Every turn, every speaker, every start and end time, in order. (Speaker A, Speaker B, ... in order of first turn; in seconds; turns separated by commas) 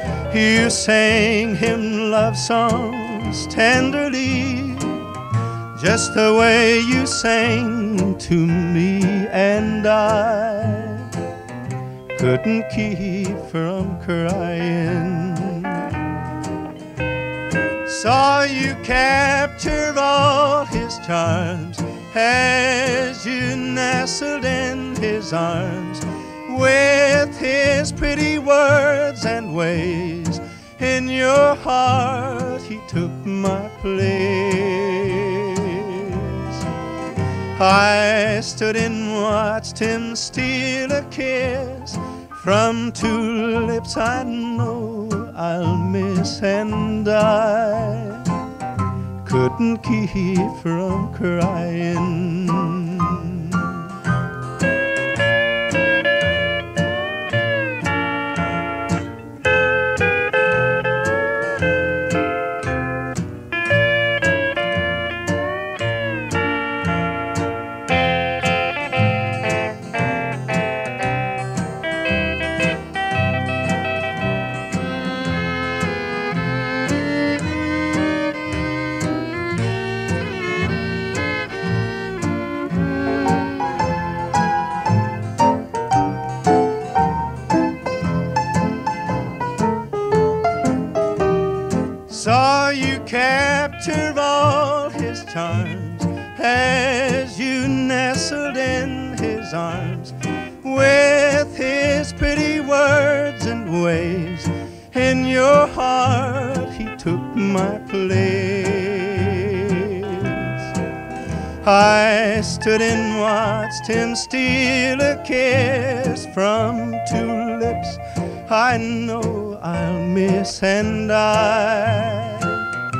Speaker A: 0.3-11.2, Speaker A: 12.1-16.0, Speaker A: 17.8-36.6, Speaker A: 37.5-48.4, Speaker A: 49.2-54.0, Speaker A: 92.0-110.7, Speaker A: 111.6-122.8